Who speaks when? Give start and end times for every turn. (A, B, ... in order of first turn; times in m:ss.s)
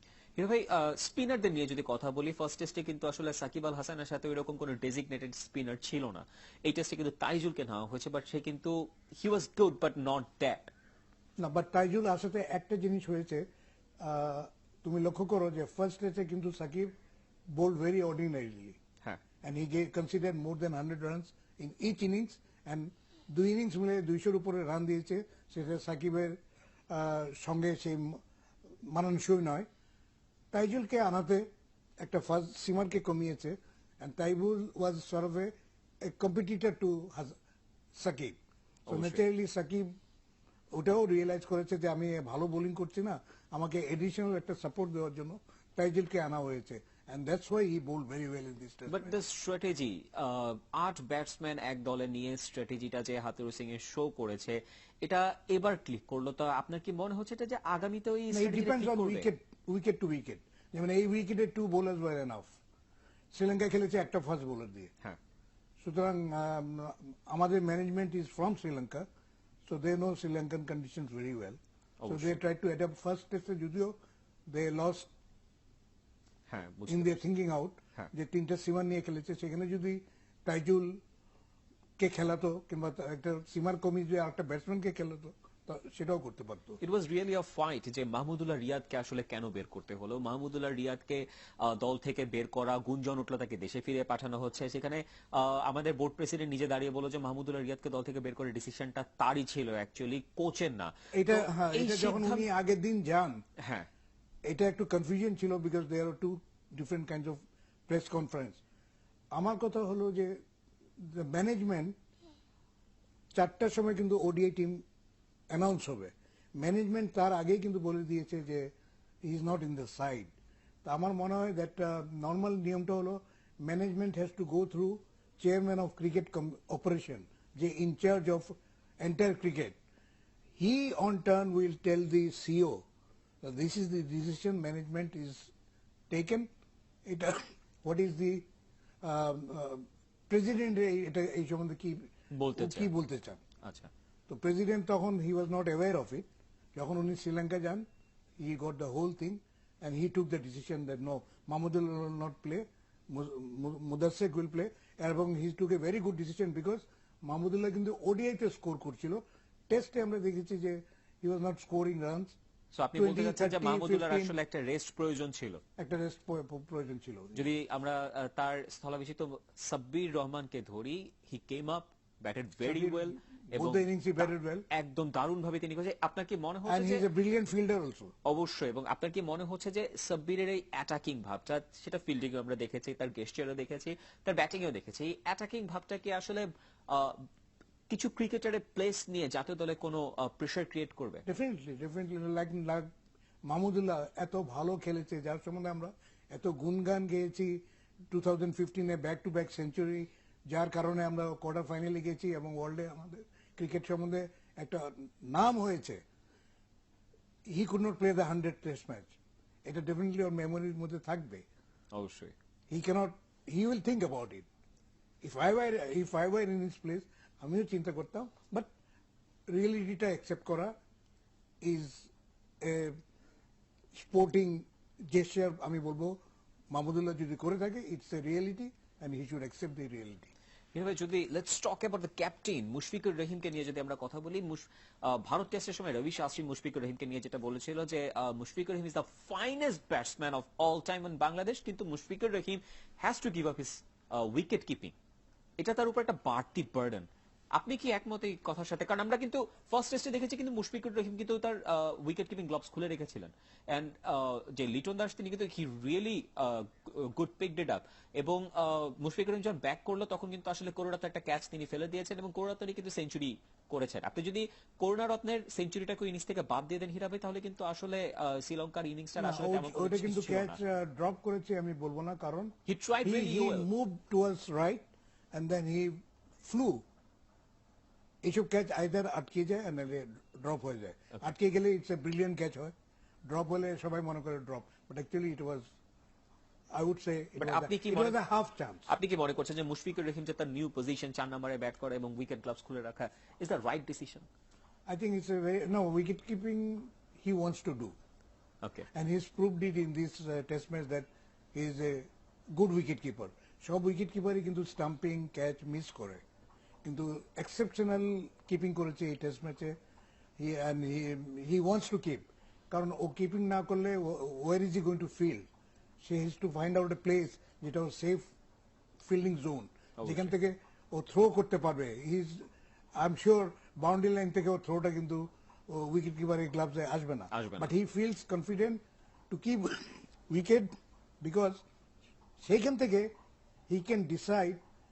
0:00.4-0:10.7 A
0:11.4-0:13.5 B
0:14.0-0:16.9 B
0:17.5-0:18.8 B
0:19.4-0:26.4 B
0:26.9-0:28.2 B
0:28.8-0:29.7 B
0:30.5-0:31.5 B
0:32.0-0:37.4 B
0:38.0-0:39.9 B
0:38.9-0:39.2 A
0:40.7-0:49.2 B
0:48.9-0:59.3 A
0:58.3-1:02.6 B
1:03.3-1:04.9 B
1:05.8-1:09.1 B
1:09.7-1:15.1 B
1:12.0-1:12.4 A
1:16.5-1:17.2 A
1:16.9-1:21.0 B
1:22.0-1:26.8 B
1:26.8-1:42.4 A
1:41.1-1:43.4 B
1:43.6-1:43.9 A
1:44.4-1:48.6 B
1:49.3-1:50.4 B
1:51.0-1:52.0 B
1:53.3-1:54.8 B
1:55.5-1:58.7 B
1:59.2-2:00.3 B
2:00.8-2:09.8 B
2:10.6-2:12.8 B
2:13.4-2:15.5 B
2:16.1-2:16.5 B
2:17.0-2:18.5 B
2:19.0-2:23.4 B
2:22.3-2:22.9 A
2:23.6-2:23.9 A
2:24.3-2:27.9 B
2:28.4-2:42.4 B
2:42.7-2:45.6 A
2:43.0-2:44.4 B
2:45.8-2:47.5 B
2:47.4-2:57.0 A
2:52.6-2:54.7 B
2:56.7-2:58.1 B
2:58.2-3:07.2 A
3:07.9-3:11.2 A
3:11.3-3:12.9 B
3:13.5-3:26.0 B
3:27.5-3:31.5 B
3:31.9-3:32.4 A
3:32.7-3:34.5 B
3:35.2-3:38.7 B
3:39.5-3:40.8 B
3:41.6-3:42.1 B
3:42.6-3:43.0 B
3:43.9-3:50.3 B
3:50.7-4:04.9 A
4:05.6-4:30.6 A
4:29.2-4:32.5 B
4:32.7-4:33.7 A
4:33.0-4:36.8 B
4:38.2-4:42.7 B
4:43.2-4:45.7 B
4:46.7-4:48.9 B
4:47.4-4:48.2 A
4:48.9-4:54.3 A
4:54.9-4:58.0 B
4:58.6-4:58.9 A
4:58.9-5:06.2 B
5:06.8-5:09.8 B
5:10.4-5:15.5 B
5:16.0-5:18.3 B
5:19.0-5:31.6 B
5:20.0-5:20.3 A
5:27.3-5:27.7 A
5:32.4-5:33.1 B
5:33.7-5:34.6 B